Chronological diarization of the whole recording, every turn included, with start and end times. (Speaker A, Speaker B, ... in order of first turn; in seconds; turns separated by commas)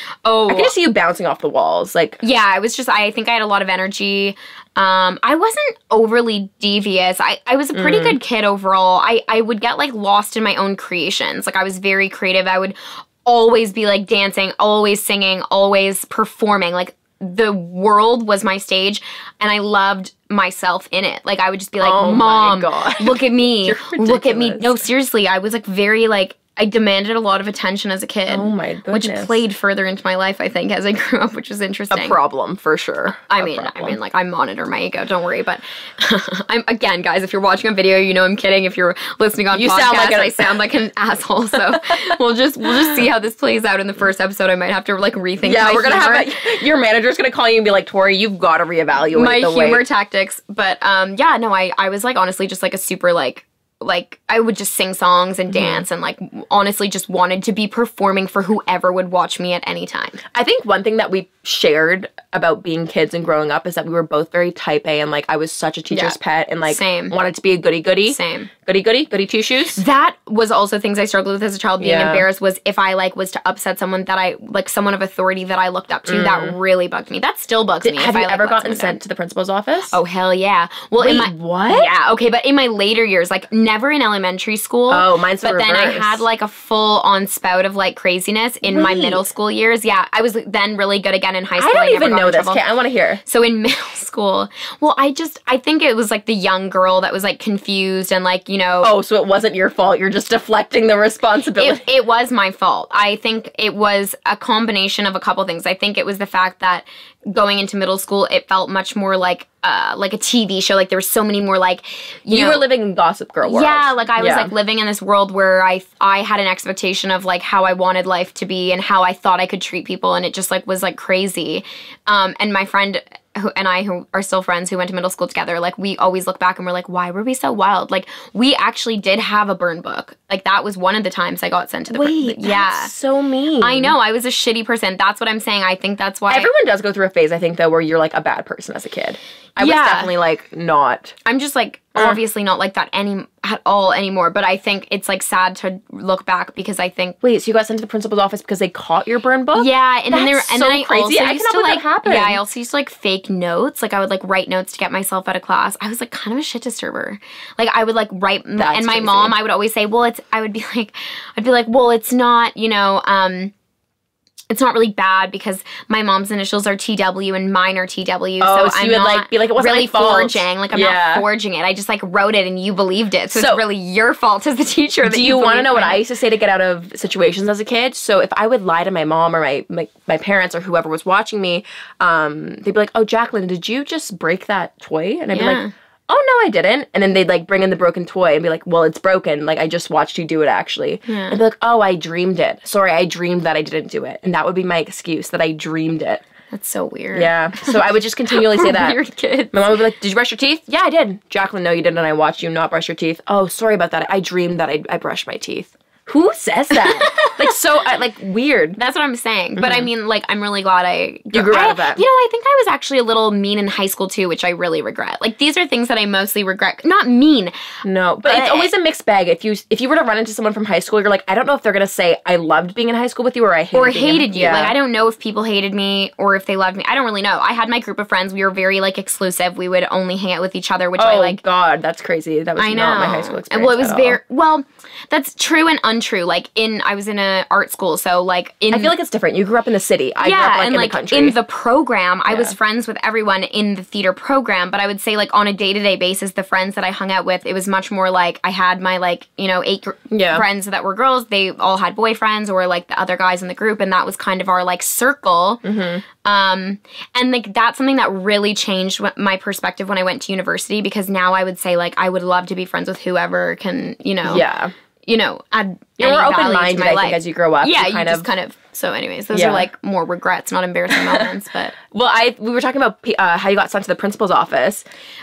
Speaker A: 0.2-0.7, Speaker B: 0.5-2.2, Speaker A: 2.2-32.2, Speaker B: 7.7-8.2, Speaker B: 21.8-24.8, Speaker B: 28.3-29.4, Speaker B: 31.9-34.0, Speaker A: 33.3-46.5, Speaker B: 39.5-40.5, Speaker B: 45.4-49.8, Speaker A: 49.1-60.2, Speaker B: 55.5-55.9, Speaker B: 60.3-69.8, Speaker A: 65.9-67.1, Speaker A: 68.1-68.5, Speaker A: 69.8-79.0, Speaker B: 71.8-72.3, Speaker B: 76.1-76.5, Speaker B: 77.8-80.0, Speaker A: 79.9-92.6, Speaker B: 81.0-81.9, Speaker B: 84.9-86.2, Speaker B: 88.7-89.2, Speaker B: 91.6-93.2, Speaker A: 93.2-98.9, Speaker B: 98.8-101.9, Speaker A: 101.6-112.7, Speaker B: 112.3-114.5, Speaker A: 113.4-132.9, Speaker B: 131.9-133.9, Speaker A: 133.6-136.5, Speaker B: 136.3-141.2, Speaker A: 139.6-140.1, Speaker A: 141.2-147.2, Speaker B: 141.9-142.2, Speaker B: 147.2-152.4, Speaker A: 149.6-163.5, Speaker B: 158.6-159.3, Speaker A: 164.5-176.0, Speaker B: 168.4-171.2, Speaker B: 173.3-173.6, Speaker B: 175.0-196.2, Speaker A: 185.3-185.7, Speaker A: 191.1-191.4, Speaker A: 196.5-199.6, Speaker B: 197.1-199.0, Speaker B: 199.5-208.8, Speaker A: 206.8-207.5, Speaker A: 208.8-217.5, Speaker B: 209.6-209.9, Speaker B: 211.3-212.0, Speaker B: 217.8-224.8, Speaker A: 218.2-218.7, Speaker A: 223.7-231.4, Speaker B: 231.0-234.2, Speaker A: 232.6-238.9, Speaker B: 238.7-241.4, Speaker A: 240.2-255.6, Speaker B: 242.3-242.5, Speaker B: 250.1-250.4, Speaker B: 255.6-256.0, Speaker A: 256.2-264.4, Speaker B: 264.2-264.7, Speaker A: 265.1-271.8, Speaker B: 266.0-268.3, Speaker B: 269.3-269.6, Speaker B: 270.9-271.3, Speaker B: 271.9-274.8